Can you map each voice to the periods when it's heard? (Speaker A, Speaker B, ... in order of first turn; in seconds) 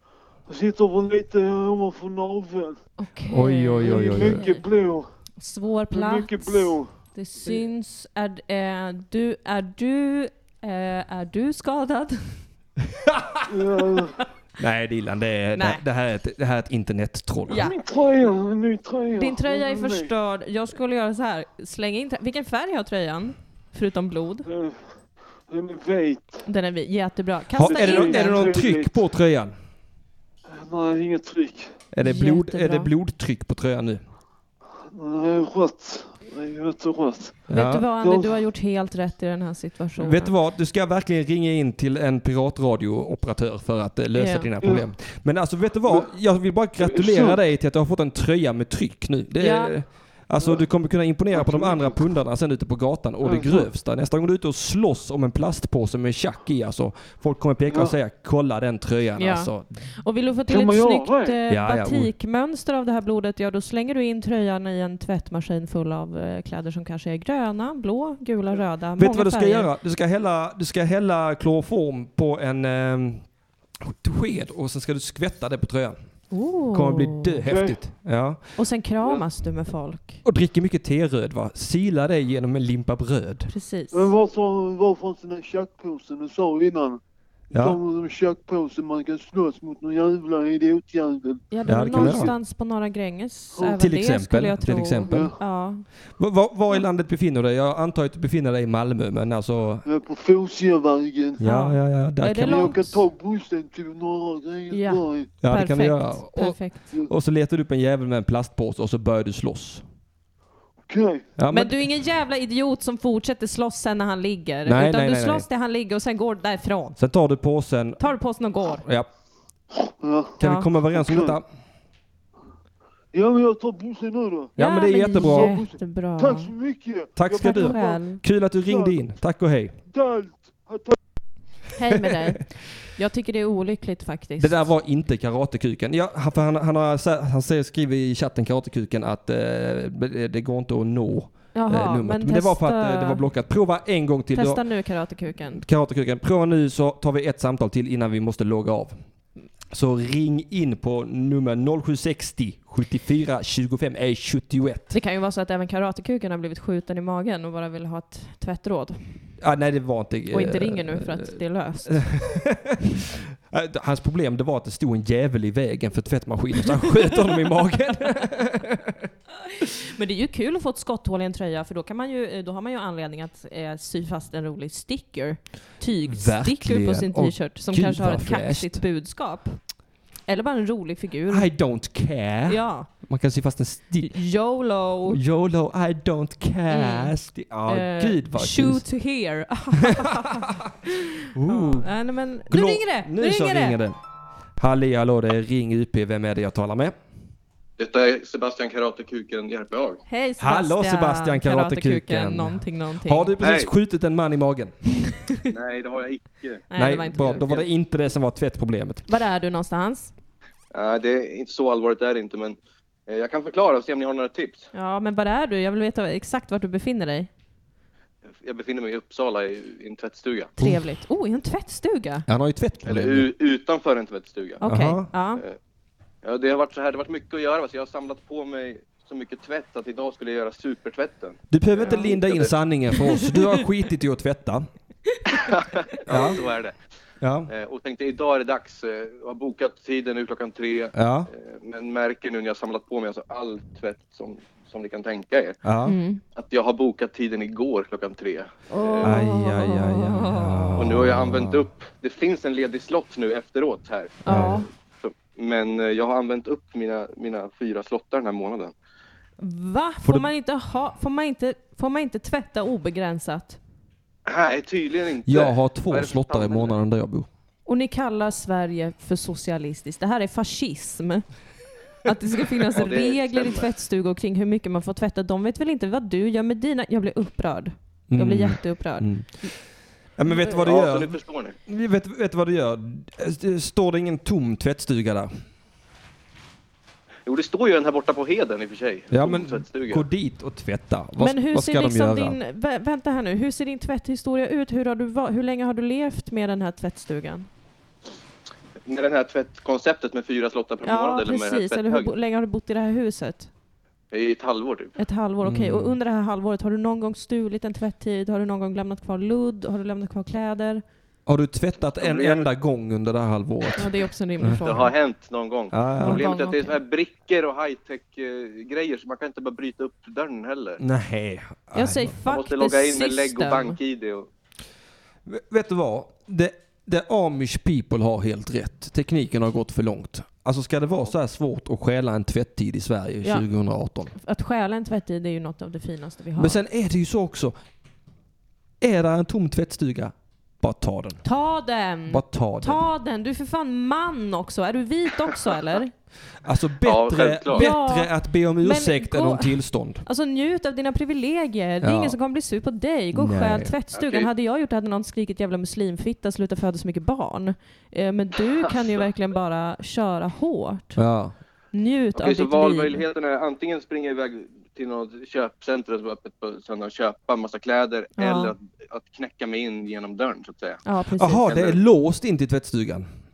Speaker A: 0.5-2.8, 3.8-5.1, 5.9-6.9, 13.5-14.2, 17.5-20.1, 24.4-24.8, 25.5-26.5, 27.6-29.0, 30.5-31.8, 34.9-38.4, 46.8-47.4, 51.3-52.0, 53.2-53.7, 57.7-57.9, 60.5-61.4, 77.4-77.8, 83.9-87.0, 87.5-92.3, 93.5-93.8, 95.0-95.4, 99.8-101.4, 102.4-105.3, 110.9-111.2, 119.8-120.4, 120.9-121.4, 123.1-124.5, 125.1-128.0, 128.6-129.0, 129.9-130.9
Speaker B: 3.0-4.6, 5.4-12.4, 15.6-15.8, 17.5-17.8, 19.1-24.5, 26.4-28.5, 32.0-32.9, 37.5-40.3, 44.1-44.5, 49.4-49.7, 59.2-69.7, 76.3-77.4, 78.5-80.2, 83.5-84.1, 91.5-95.8, 101.4-103.0, 104.7-106.9, 111.5-117.0, 118.0-118.9, 120.4-120.7, 124.6-126.5, 127.4-128.2, 131.7-134.7, 141.5-143.2, 144.3-145.6, 154.9-159.2, 160.3-162.1, 169.4-179.6, 180.3-181.5, 182.5-182.9, 184.0-185.2, 186.7-187.1, 187.7-193.8, 200.1-203.3, 206.7-207.5, 209.1-210.1, 214.7-217.3, 220.6-222.2, 224.6-225.4, 232.9-233.4, 245.8-246.2, 248.7-250.8, 254.2-254.7, 259.4-263.6, 267.6-271.4, 271.9-279.5, 291.2-297.5, 300.8-303.5, 305.0-310.8, 313.8-314.9, 316.0-316.8, 321.7-323.8, 334.1-336.6, 341.2-345.9, 347.5-361.0, 361.7-363.0, 368.2-368.5, 370.8-371.4
Speaker C: 3.3-4.4, 13.0-13.5, 14.6-17.6, 27.6-29.5, 31.9-34.0, 37.5-37.8, 40.0-59.7, 61.5-62.1, 69.0-73.2, 73.8-76.0, 76.7-78.4, 80.2-83.5, 87.5-87.8, 91.7-92.3, 93.7-95.3, 96.2-99.8, 101.4-102.7, 105.4-109.8, 111.4-111.8, 114.7-115.4, 117.0-118.0, 120.4-121.4, 124.6-125.5, 127.2-129.7, 134.4-144.6, 145.5-149.0, 149.7-154.9, 159.4-169.1, 176.1-178.8, 181.3-184.1, 185.1-188.8, 191.3-191.9, 192.5-193.9, 194.6-196.9, 200.4-204.7, 206.8-209.1, 222.3-223.3, 224.6-225.1, 231.5-234.7, 236.1-236.4, 237.2-237.5, 240.9-241.3, 245.6-245.9, 249.0-251.6, 254.3-254.6, 265.2-267.3, 278.1-279.4, 280.2-285.3, 289.1-292.4, 305.4-305.9, 311.3-313.9, 315.7-316.2, 320.8-322.1, 325.3-334.1, 336.4-337.5, 338.8-341.2, 342.1-342.8, 346.4-350.0, 351.8-352.1, 353.1-353.7, 361.0-361.4, 371.2-373.1
Speaker D: 197.8-200.0, 203.4-203.7, 205.5-206.7, 207.3-207.7, 210.7-212.6, 213.1-214.7, 218.4-220.5, 222.8-224.6, 226.2-232.5, 235.3-236.7, 237.5-245.6, 246.3-249.2, 250.8-254.2, 254.9-258.7, 264.3-266.8, 272.7-273.6, 280.5-281.5, 287.2-290.0, 298.8-302.1, 304.1-304.9, 312.0-312.5, 314.6-320.8, 322.3-324.3, 346.8-347.7, 353.9-354.3, 362.1-370.8, 371.4-371.8